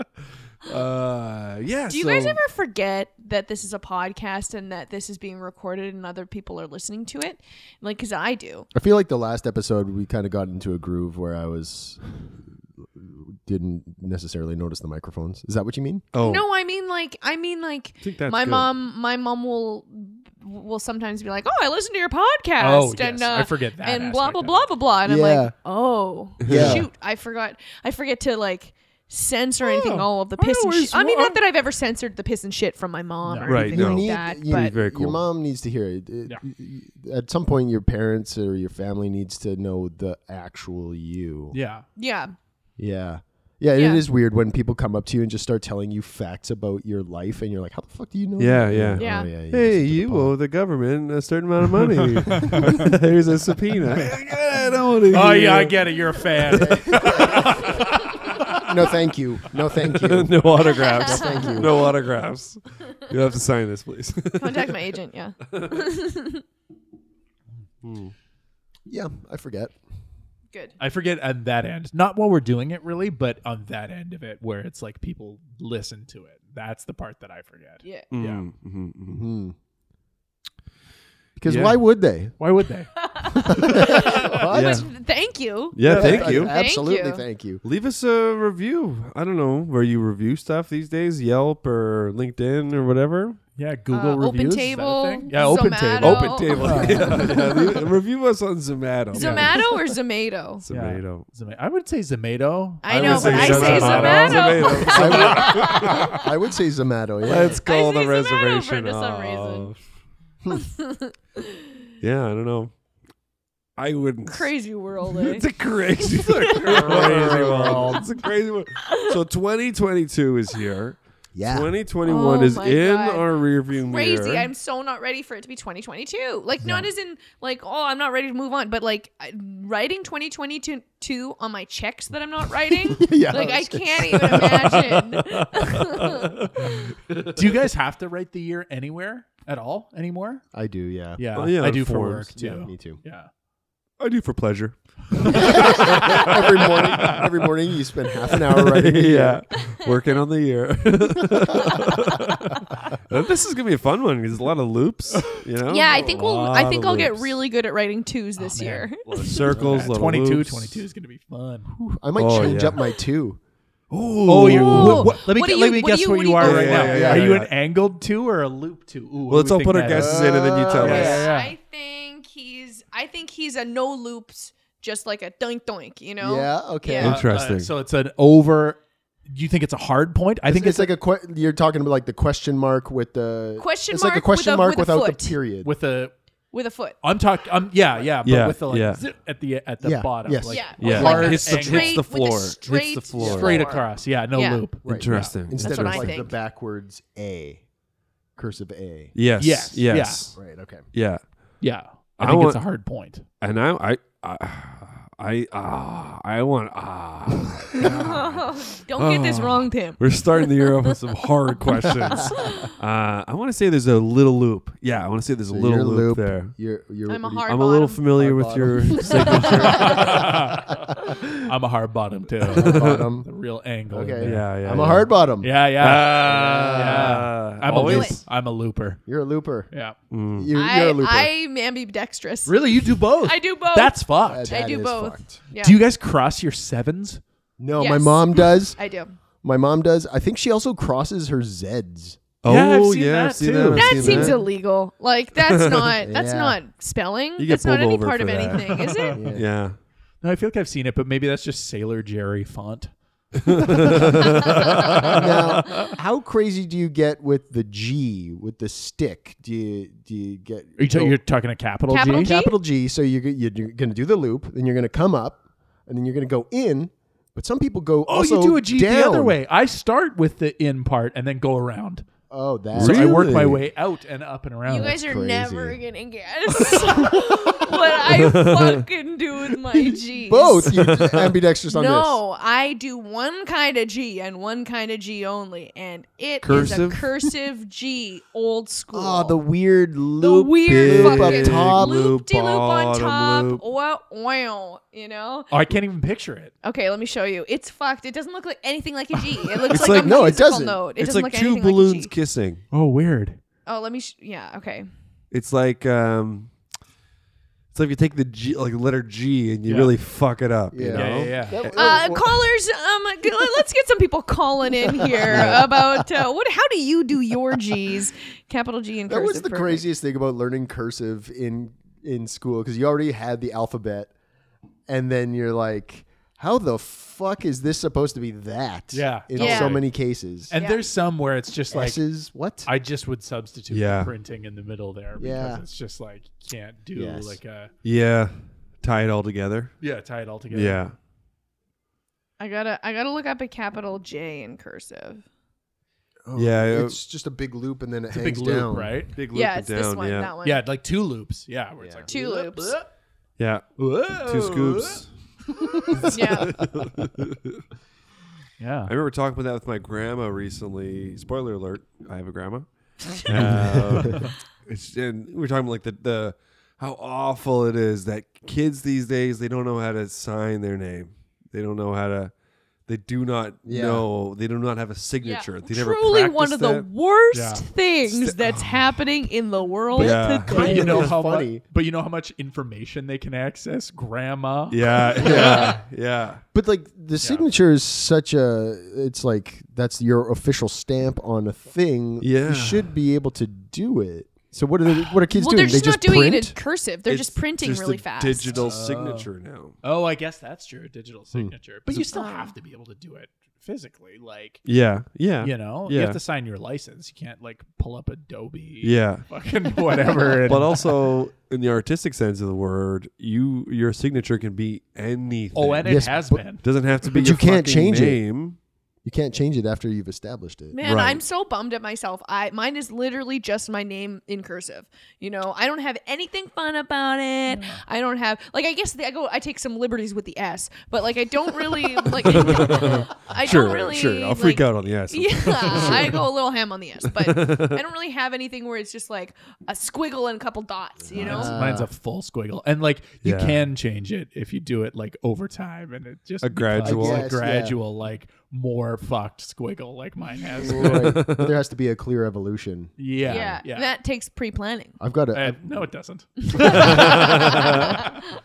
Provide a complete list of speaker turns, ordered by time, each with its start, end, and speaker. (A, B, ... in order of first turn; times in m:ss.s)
0:00.6-0:02.4 A
0:01.9-0:08.7 B
0:08.7-0:12.0 C
0:12.9-0:16.0 C
0:16.1-0:16.4 A
0:16.2-0:34.7 B
0:18.0-0:18.7 A
0:22.6-0:24.7 D
0:25.0-0:25.5 C
0:26.4-0:26.9 C
0:26.4-0:26.8 A
0:29.6-0:30.1 D
0:30.4-0:31.3 A
0:30.6-0:31.3 D
0:33.2-0:33.6 D
0:33.4-0:35.2 A
0:33.6-0:41.6 C
0:41.5-0:41.8 D
0:42.0-0:42.3 B
0:42.8-0:50.3 C
0:43.7-0:44.0 B
0:48.4-0:56.6 A
0:49.0-0:49.3 B
0:52.3-0:52.7 D
0:53.9-0:54.2 D
0:55.1-0:57.8 D
0:56.5-1:01.9 C
0:57.2-0:57.9 A
0:59.9-1:04.8 A
1:00.6-1:01.6 B
1:04.4-1:06.4 B
1:07.8-1:08.1 A
1:08.9-1:09.7 C
1:10.8-1:18.4 D
1:17.8-1:18.1 B
1:18.1-1:19.2 A
1:19.1-1:19.5 C
1:21.4-1:22.3 C
1:21.4-1:21.8 A
1:22.4-1:24.2 D
1:23.0-1:27.2 B
1:23.3-1:24.9 C
1:24.5-1:24.9 A
1:25.7-1:26.5 A
1:25.8-1:27.6 C
1:25.8-1:26.3 D
1:27.6-1:33.4 A
1:33.6-1:37.8 D
1:33.9-1:37.7 B
1:36.0-1:39.7 A
1:39.1-1:39.7 D
1:39.1-1:40.6 B
1:40.6-1:41.3 A
1:40.7-1:45.2 D
1:42.8-1:46.2 B
1:42.9-1:46.1 A
1:43.4-1:43.7 C
1:44.7-1:47.6 C
1:47.2-1:49.8 A
1:47.6-1:49.7 B
1:50.5-1:51.6 B
1:52.0-1:52.7 A
1:53.8-1:54.5 A
1:54.2-1:55.4 B
1:55.0-2:04.5 A
1:56.1-1:58.0 D
1:56.7-1:58.1 C
1:58.8-1:59.1 B
2:01.3-2:01.7 C
2:02.0-2:16.9 B
2:06.6-2:06.9 C
2:12.8-2:14.8 C
2:14.9-2:17.2 A
2:17.2-2:20.4 D
2:20.5-2:21.2 C
2:21.2-2:23.3 D
2:21.3-2:22.3 A
2:22.3-2:23.0 C
2:24.0-2:27.2 A
2:25.3-2:29.4 C
2:28.3-2:37.4 A
2:35.7-2:39.5 B
2:38.4-2:38.9 D
2:39.0-2:40.8 A
2:39.5-2:41.7 D
2:39.5-2:39.9 C
2:41.7-2:43.4 C
2:42.2-2:42.8 A
2:43.9-2:45.2 A
2:44.3-2:51.6 D
2:44.4-2:47.2 B
2:46.4-2:47.5 A
2:46.9-2:47.4 C
2:49.3-2:51.2 A
2:49.9-2:51.2 C
2:50.7-2:57.2 B
2:56.2-2:57.2 C
2:57.0-2:57.7 A
2:57.0-3:00.9 D
3:00.4-3:05.7 C
3:03.6-3:05.4 B
3:05.6-3:06.1 D
3:06.5-3:07.0 B
3:07.0-3:12.0 D
3:08.2-3:09.0 A
3:09.8-3:11.1 C
3:10.5-3:14.6 B
3:10.8-3:13.7 A
3:13.2-3:13.4 C
3:13.2-3:15.3 D
3:14.8-3:17.6 C
3:14.9-3:16.2 A
3:15.5-3:16.3 B
3:18.4-3:19.1 C
3:19.1-3:21.2 A
3:19.4-3:20.3 D
3:20.3-3:20.8 C
3:21.6-3:23.2 D
3:22.2-3:22.7 A
3:23.4-3:36.5 A
3:27.4-3:28.4 C
3:27.7-3:31.0 B
3:31.9-3:32.7 B
3:35.5-3:40.4 C
3:37.1-3:38.0 B
3:37.5-3:40.2 A
3:39.0-3:39.9 B
3:39.8-3:40.8 D
3:41.3-3:49.0 D
3:42.5-3:43.1 A
3:42.5-3:43.3 C
3:43.9-3:47.8 C
3:44.2-3:45.1 A
3:45.7-3:48.2 A
3:47.8-3:48.2 B
3:49.0-3:49.7 C
3:49.7-3:50.0 D
3:50.1-3:50.5 A
3:50.3-3:51.3 C
3:50.5-3:55.8 B
3:52.4-3:54.5 D
3:54.2-3:55.4 C
3:55.6-3:57.2 D
3:57.6-3:58.8 C
3:57.8-3:59.2 B
3:59.4-4:02.2 C
4:02.4-4:04.4 A
4:02.4-4:04.4 D
4:03.7-4:09.2 B
4:05.4-4:06.0 A
4:06.0-4:06.6 C
4:07.4-4:09.8 A
4:08.8-4:09.2 D
4:09.1-4:09.5 C
4:10.2-4:12.9 D
4:13.4-4:15.9 A
4:14.9-4:21.2 C
4:20.8-4:22.3 D
4:21.9-4:22.6 B
4:22.1-4:29.4 C
4:28.0-4:32.0 D
4:32.3-4:33.6 C
4:32.7-4:35.0 D
4:32.7-4:33.6 A
4:34.6-4:40.7 B
4:34.8-4:35.8 C
4:37.0-4:37.7 C
4:38.1-4:38.8 A
4:39.8-4:42.2 C
4:40.7-4:41.4 A
4:41.7-4:49.4 B
4:46.4-4:47.1 A
4:48.9-4:52.0 C
4:50.2-4:55.5 B
4:50.6-4:53.6 A
4:55.5-4:56.5 D
4:56.6-5:02.1 B
4:59.7-5:00.3 A
4:59.7-5:00.8 C
5:01.0-5:02.6 A
5:02.7-5:03.4 D
5:03.6-5:04.9 B
5:05.3-5:06.5 A
5:07.7-5:11.7 A
5:09.6-5:09.9 D
5:10.7-5:12.4 C
5:10.9-5:11.7 D
5:11.7-5:19.9 B
5:15.0-5:15.8 C
5:15.3-5:15.6 A
5:19.1-5:24.1 C
5:24.9-5:30.5 C
5:28.9-5:29.8 D
5:29.3-5:29.8 B
5:30.5-5:32.0 D
5:30.5-5:30.8 B
5:31.7-5:32.7 C
5:32.6-5:37.7 D
5:33.7-5:34.1 A
5:35.2-5:35.6 C
5:36.9-5:37.4 C
5:37.8-5:39.8 A
5:39.8-5:40.8 D
5:40.5-5:40.9 A
5:42.4-5:45.2 B
5:46.2-5:49.1 C
5:46.3-5:47.0 A
5:48.1-5:49.1 D
5:49.1-5:50.3 A
5:49.3-5:50.6 B
5:50.4-5:52.9 D
5:51.8-5:52.1 C
5:52.1-5:52.8 B
5:53.4-5:55.1 A
5:53.8-5:55.0 D
5:55.5-5:56.0 D
5:56.0-5:57.6 A
5:56.1-5:56.5 B
5:58.6-5:58.9 D
5:58.9-6:12.3 A
6:03.3-6:04.2 C
6:04.0-6:04.3 D
6:12.8-6:16.9 A
6:13.6-6:14.1 C
6:15.2-6:21.1 B
6:17.3-6:17.6 D
6:18.1-6:18.6 A
6:19.9-6:21.0 A
6:20.0-6:25.7 D
6:20.4-6:21.6 C
6:24.7-6:26.4 A
6:25.2-6:25.8 C
6:26.5-6:36.6 C
6:32.2-6:32.9 A
6:35.3-6:38.6 B
6:37.1-6:39.8 A
6:38.5-6:39.3 D
6:39.8-6:44.6 D
6:41.3-6:42.1 C
6:42.1-6:42.5 B
6:44.6-6:46.2 A
6:45.4-6:50.9 D
6:48.8-6:49.3 A
6:50.2-6:58.6 A
6:55.5-6:56.6 D
6:55.8-6:58.2 C
6:59.0-7:00.8 C
7:00.7-7:21.6 B
7:00.8-7:01.2 A
7:07.5-7:07.8 D
7:12.3-7:16.2 A
7:15.7-7:16.0 D
7:17.2-7:17.8 A
7:21.0-7:21.9 C
7:21.1-7:31.2 D
7:23.2-7:23.6 A
7:26.4-7:27.3 A
7:26.8-7:27.8 C
7:30.6-7:33.6 C
7:30.7-7:31.6 A
7:33.0-7:33.9 D
7:33.2-7:35.0 B
7:35.0-7:35.8 C
7:35.3-7:38.0 D
7:36.5-7:38.1 B
7:36.6-7:37.9 A